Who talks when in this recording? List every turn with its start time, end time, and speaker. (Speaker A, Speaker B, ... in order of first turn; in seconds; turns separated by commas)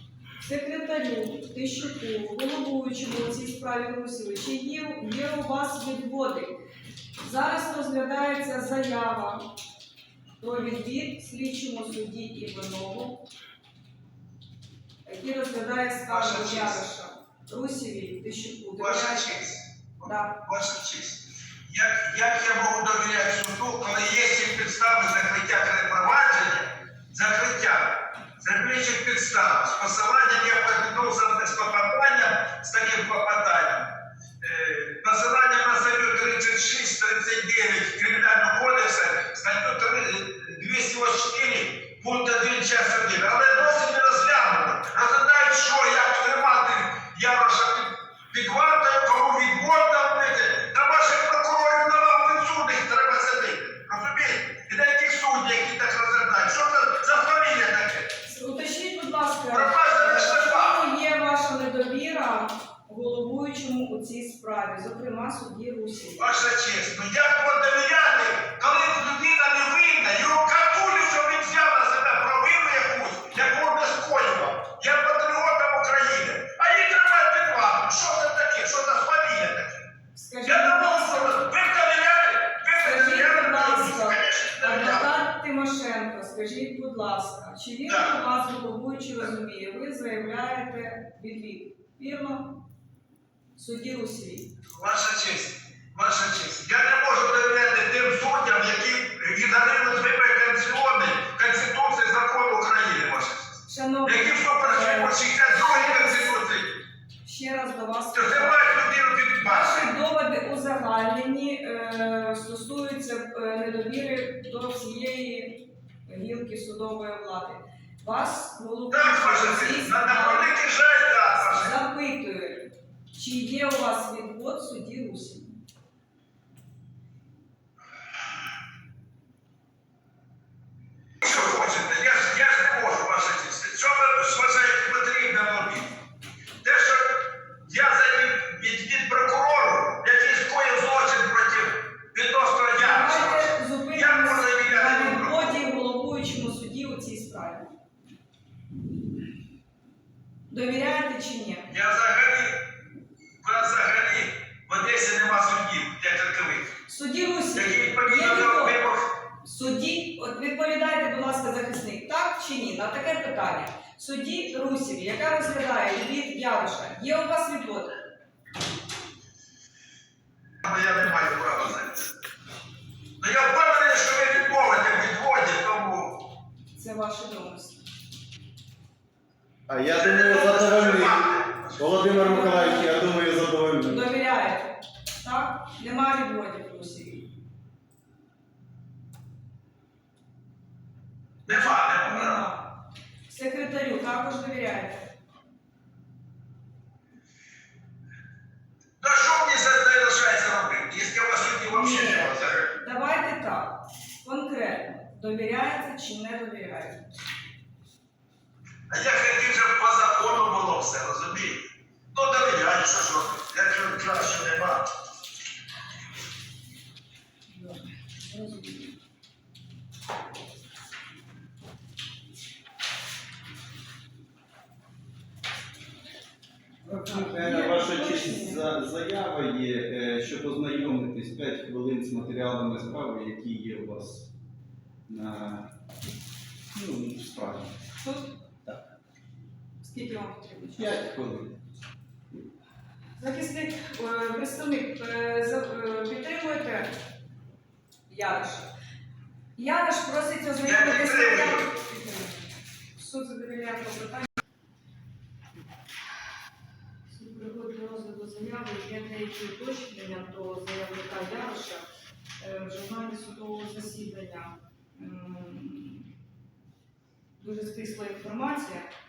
Speaker A: 0.4-6.5, Speaker A: 7.2-9.4, Speaker A: 10.4-13.2, Speaker A: 15.1-19.4, Speaker B: 16.1-16.8, Speaker B: 18.8-33.9, Speaker A: 20.0-20.3, Speaker B: 34.4-58.1, Speaker A: 58.2-66.2, Speaker B: 59.5-60.8, Speaker B: 66.2-79.8, Speaker A: 80.1-81.3, Speaker B: 80.5-85.1, Speaker A: 82.8-92.5, Speaker A: 93.6-94.5, Speaker B: 94.7-106.7, Speaker A: 103.7-106.4, Speaker A: 107.2-108.8, Speaker B: 108.1-109.9, Speaker A: 109.4-120.5, Speaker B: 118.9-121.7, Speaker A: 121.3-125.6, Speaker B: 131.2-135.9, Speaker B: 136.6-145.6, Speaker A: 142.7-147.7, Speaker A: 150.5-151.7, Speaker B: 151.7-152.5, Speaker B: 153.4-156.7, Speaker A: 156.9-158.8, Speaker B: 157.5-159.0, Speaker A: 159.4-167.9, Speaker B: 170.6-172.1, Speaker B: 173.2-176.2, Speaker A: 176.7-177.8, Speaker C: 179.7-184.1, Speaker B: 179.9-181.8, Speaker A: 182.0-183.2, Speaker A: 183.8-187.3, Speaker B: 191.5-192.4, Speaker A: 191.5-192.7, Speaker A: 193.3-195.1, Speaker B: 199.0-202.7, Speaker A: 201.7-207.0, Speaker B: 208.9-214.8, Speaker A: 217.5-218.9, Speaker C: 226.8-234.3, Speaker A: 226.9-228.6, Speaker C: 235.1-235.7, Speaker C: 236.7-237.7, Speaker A: 238.0-238.3, Speaker A: 239.8-241.1, Speaker C: 240.8-241.5, Speaker A: 243.2-246.9, Speaker A: 248.1-248.7, Speaker A: 249.6-254.3, Speaker B: 250.6-251.7, Speaker A: 257.1-261.9, Speaker A: 262.4-266.1, Speaker A: 267.4-268.9